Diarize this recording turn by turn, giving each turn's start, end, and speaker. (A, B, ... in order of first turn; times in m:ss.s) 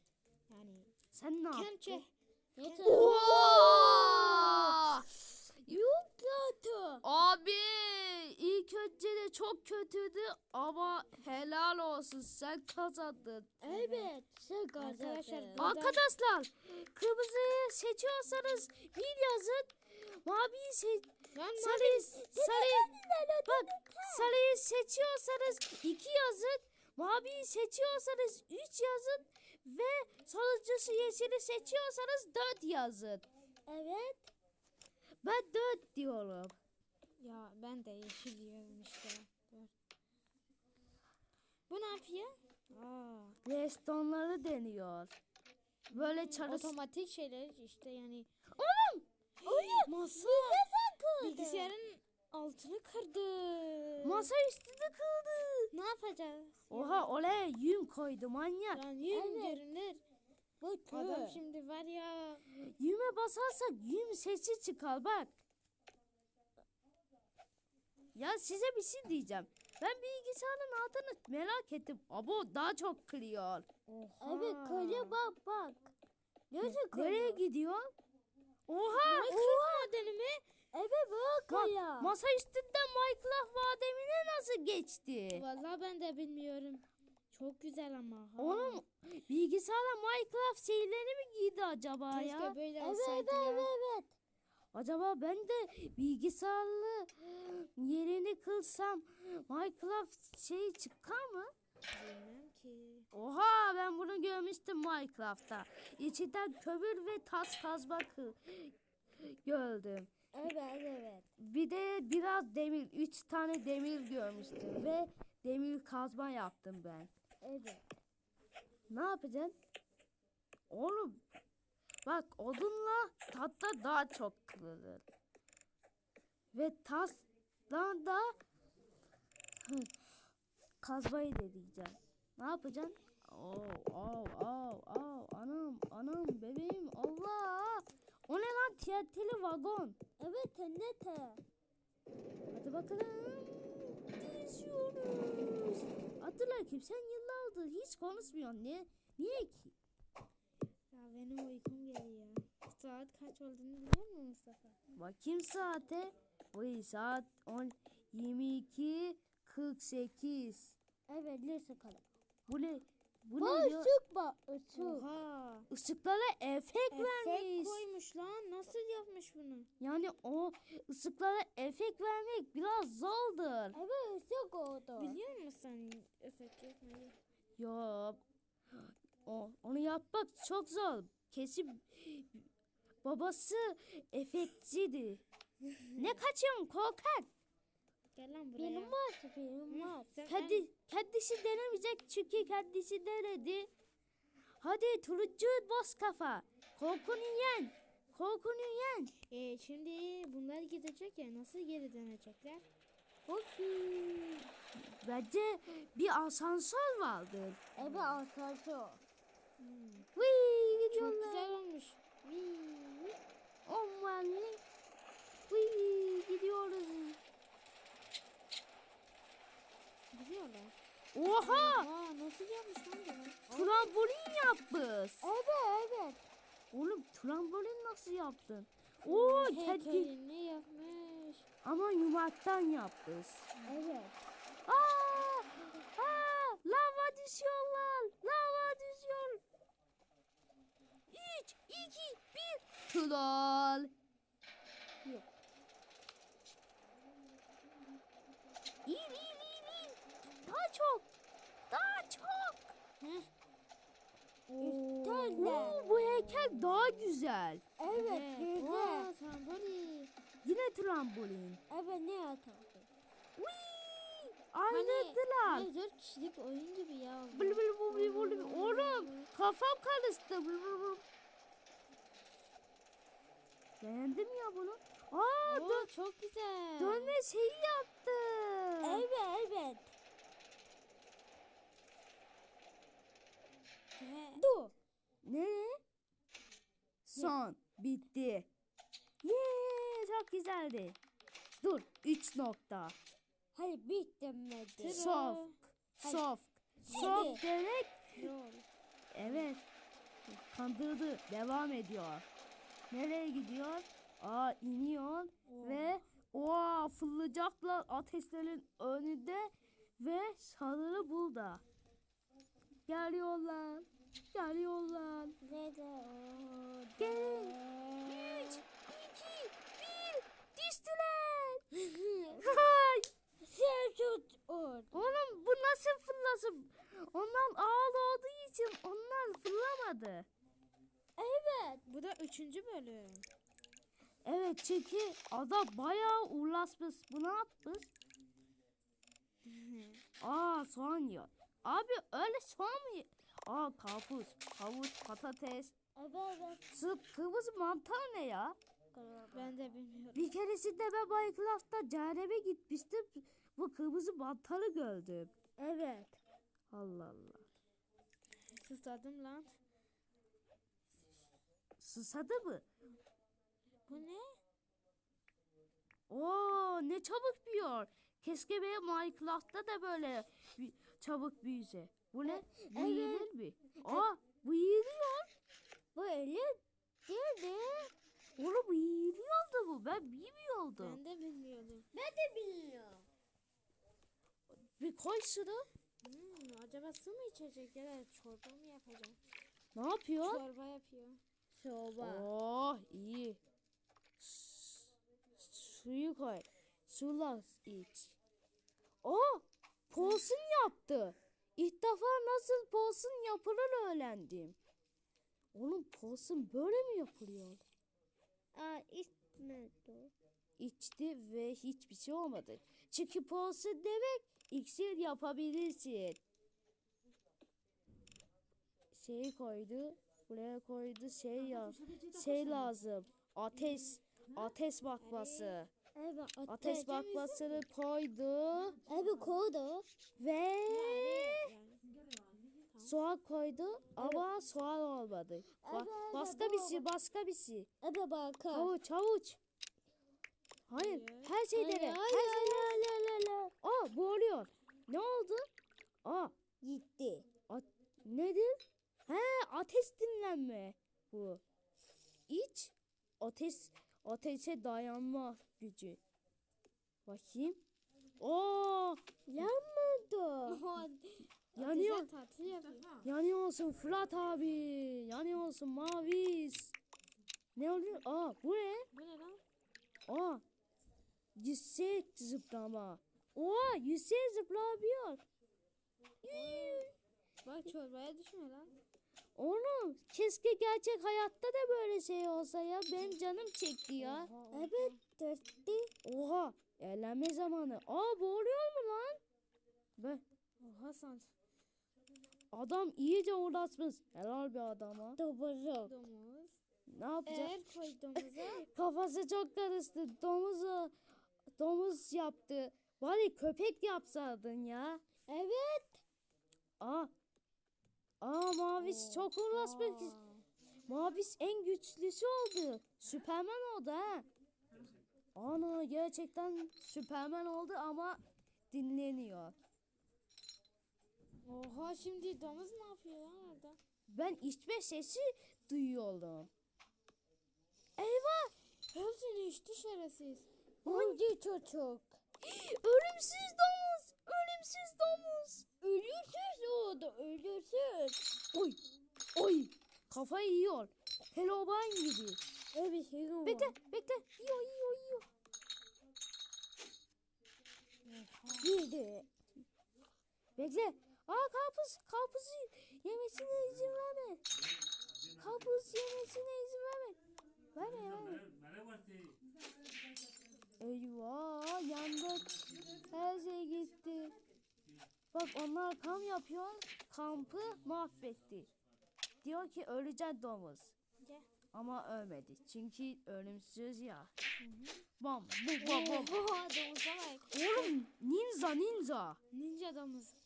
0:00.5-0:00.9 A
0:01.1-0:02.0 B
0:01.5-0:02.1 A
0:02.6-0:05.0 C
0:02.6-0:03.1 A
0:02.8-0:05.1 B
0:05.6-0:07.0 C
0:07.0-0:13.7 B
0:13.6-0:15.8 C
0:13.7-0:14.1 A
0:14.8-0:16.0 A
0:15.6-0:22.9 B
0:21.3-0:22.2 A
0:22.1-0:24.3 C
0:23.5-0:33.3 B
0:33.7-0:34.3 C
0:35.2-0:36.6 B
0:37.2-0:39.7 A
0:41.7-0:43.4 A
0:43.4-0:45.1 B
0:45.9-0:46.7 B
0:45.9-0:48.3 A
0:48.5-0:49.1 B
0:49.4-0:50.7 A
0:49.4-0:51.8 C
0:51.2-0:54.3 A
0:54.0-0:55.7 B
0:55.7-0:57.1 A
0:56.7-0:58.8 B
0:58.7-1:00.0 A
0:59.1-0:59.6 C
1:00.6-1:01.4 C
1:00.9-1:02.4 A
1:02.5-1:05.4 B
1:08.2-1:15.2 B
1:14.2-1:15.8 C
1:16.5-1:17.4 C
1:16.6-1:17.9 B
1:18.7-1:19.5 B
1:19.0-1:20.4 A
1:19.2-1:19.9 C
1:20.7-1:22.2 C
1:21.5-1:25.4 B
1:25.3-1:28.8 A
1:28.4-1:33.7 B
1:32.1-1:33.3 A
1:32.8-1:34.1 C
1:34.7-1:41.5 B
1:41.9-1:43.1 A
1:43.1-1:50.1 B
1:50.3-1:51.3 C
1:51.4-1:57.1 B
1:57.4-1:57.8 C
1:58.9-1:59.5 B
2:00.7-2:01.2 B
2:02.1-2:05.0 B
2:06.5-2:08.4 B
2:09.6-2:09.9 B
2:10.8-2:20.0 B
2:20.2-2:21.4 C
2:22.5-2:29.8 B
2:30.9-2:34.8 A
2:35.0-2:40.8 B
2:41.1-2:42.0 C
2:42.5-2:43.9 B
2:43.4-2:45.1 C
2:44.8-2:45.7 A
2:45.7-2:47.8 B
2:46.9-2:49.7 A
2:49.8-2:53.8 B
2:53.7-2:55.2 C
2:55.0-2:57.2 A
2:57.6-2:58.2 B
2:58.7-3:02.5 B
3:03.0-3:05.2 B
3:06.0-3:07.3 B
3:08.2-3:09.0 A
3:08.6-3:10.1 C
3:09.7-3:10.7 A
3:10.3-3:13.7 B
3:14.6-3:19.1 B
3:19.3-3:22.6 A
3:23.3-3:24.5 C
3:24.8-3:27.6 B
3:27.8-3:29.0 C
3:27.8-3:28.2 A
3:29.6-3:30.1 A
3:30.2-3:31.5 B
3:30.9-3:32.2 A
3:32.2-3:33.1 C
3:33.7-3:34.6 B
3:35.5-3:37.2 B
3:40.1-3:40.8 A
3:41.1-3:41.9 B
3:41.3-3:43.7 A
3:43.5-3:45.3 B
3:45.2-3:46.2 C
3:46.7-3:50.1 B
3:49.1-3:51.5 A
3:51.6-3:53.5 B
3:53.6-3:54.2 C
3:54.7-3:59.4 B
4:01.1-4:03.9 B
4:08.9-4:11.1 B
4:11.7-4:12.7 B
4:13.0-4:13.3 A
4:14.5-4:16.9 C
4:14.6-4:18.5 B
4:17.8-4:19.1 C
4:18.4-4:20.1 A
4:20.4-4:21.6 B
4:21.7-4:22.9 C
4:23.4-4:25.7 B
4:24.7-4:29.3 A
4:27.3-4:31.0 B
4:33.8-4:35.9 B
4:35.4-4:37.2 A
4:36.8-4:39.0 B
4:38.8-4:39.9 C
4:44.0-4:44.4 A
4:44.3-4:44.7 C
4:45.2-4:45.8 B
4:47.1-4:48.5 B
4:49.2-4:51.0 B
4:51.6-4:53.0 B
4:53.5-4:55.0 C
4:54.8-4:55.6 A
4:54.9-4:58.2 B
4:56.0-4:56.2 C
4:56.8-4:57.4 C
4:57.0-4:57.3 A
4:58.2-4:58.6 A
4:59.1-4:59.6 B
5:00.3-5:02.3 B
5:02.9-5:11.6 B
5:05.5-5:06.0 A
5:12.9-5:15.4 B
5:15.4-5:18.6 C
5:17.0-5:21.6 B
5:21.8-5:22.2 A
5:22.4-5:23.1 B
5:23.4-5:25.0 C
5:24.9-5:30.3 B
5:31.2-5:31.8 C
5:31.9-5:33.3 A
5:34.2-5:37.9 B
5:39.4-5:40.0 A
5:40.2-5:45.8 B
5:46.0-5:46.6 C
5:46.7-5:48.6 B
5:48.9-5:49.6 C
5:49.3-5:50.4 A
5:50.2-5:55.3 B
5:55.6-5:56.2 C
5:56.7-5:57.5 B
5:58.5-5:59.6 A
6:01.8-6:02.7 B
6:03.9-6:04.4 A
6:06.1-6:15.3 B
6:12.2-6:13.3 C
6:13.8-6:14.1 C
6:16.0-6:17.9 C
6:18.4-6:21.0 B
6:20.8-6:21.9 A
6:21.9-6:23.1 C
6:24.5-6:25.7 B
6:26.0-6:29.2 A
6:29.8-6:30.4 B
6:30.2-6:31.2 A
6:31.6-6:32.3 C
6:32.0-6:33.4 B
6:34.2-6:38.2 B
6:39.0-6:44.6 B
6:45.5-6:47.6 B
6:48.6-6:50.1 C
6:49.1-6:49.4 A
6:50.6-6:56.2 B
6:58.9-7:05.7 B
7:05.0-7:05.6 A
7:06.0-7:07.6 C
7:06.5-7:08.8 B
7:08.9-7:09.9 C
7:10.2-7:11.5 B
7:10.7-7:12.9 A
7:12.8-7:17.7 B
7:14.0-7:14.3 C
7:15.6-7:16.9 C
7:17.8-7:18.7 C
7:18.5-7:19.4 B
7:20.7-7:22.8 B
7:20.8-7:21.4 A
7:21.5-7:23.5 C
7:23.6-7:25.5 B
7:26.0-7:26.4 B
7:26.6-7:27.3 C
7:27.5-7:31.4 B
7:32.3-7:36.0 B
7:37.1-7:37.6 B
7:38.2-7:39.6 B
7:39.3-7:40.7 C
7:40.5-7:43.1 A
7:41.6-7:42.1 B
7:43.0-7:46.8 B
7:47.6-7:48.9 B
7:48.9-7:49.4 A
7:50.1-7:50.4 B
7:51.4-7:55.2 B
7:56.2-7:57.0 B
7:56.3-7:56.9 A
7:57.4-7:58.7 A
7:59.4-8:04.3 B
8:04.0-8:05.0 A
8:04.5-8:05.9 C
8:06.0-8:09.2 B
8:10.0-8:10.2 B
8:10.6-8:11.3 A
8:12.5-8:15.2 B
8:15.2-8:16.0 C
8:15.9-8:16.6 A
8:16.9-8:17.6 B
8:17.3-8:18.7 A
8:18.6-8:21.0 B
8:21.6-8:25.0 B
8:25.3-8:26.0 C
8:26.8-8:27.1 B
8:28.2-8:30.2 B
8:29.0-8:30.4 A
8:30.9-8:34.3 B
8:35.4-8:38.2 B
8:38.7-8:39.6 B
8:41.4-8:43.8 A
8:44.1-8:46.5 B
8:48.0-8:48.5 B
8:48.9-8:50.5 A
8:50.8-8:51.2 B
8:50.8-8:52.2 C
8:52.4-8:55.7 B
8:55.8-8:58.2 C
8:58.5-8:58.8 B
8:59.4-9:02.4 B
9:02.7-9:03.8 C
9:03.4-9:05.2 B
9:08.1-9:08.6 B
9:08.6-9:09.3 C
9:10.6-9:14.4 B
9:15.4-9:17.2 B
9:17.8-9:18.5 B
9:20.8-9:24.4 B
9:25.3-9:28.7 B
9:29.4-9:31.0 B
9:31.2-9:31.4 A
9:31.7-9:34.3 B
9:34.6-9:35.1 A
9:35.2-9:36.4 B
9:35.8-9:36.7 C
9:35.8-9:37.9 A
9:37.5-9:39.4 B
9:39.5-9:40.4 A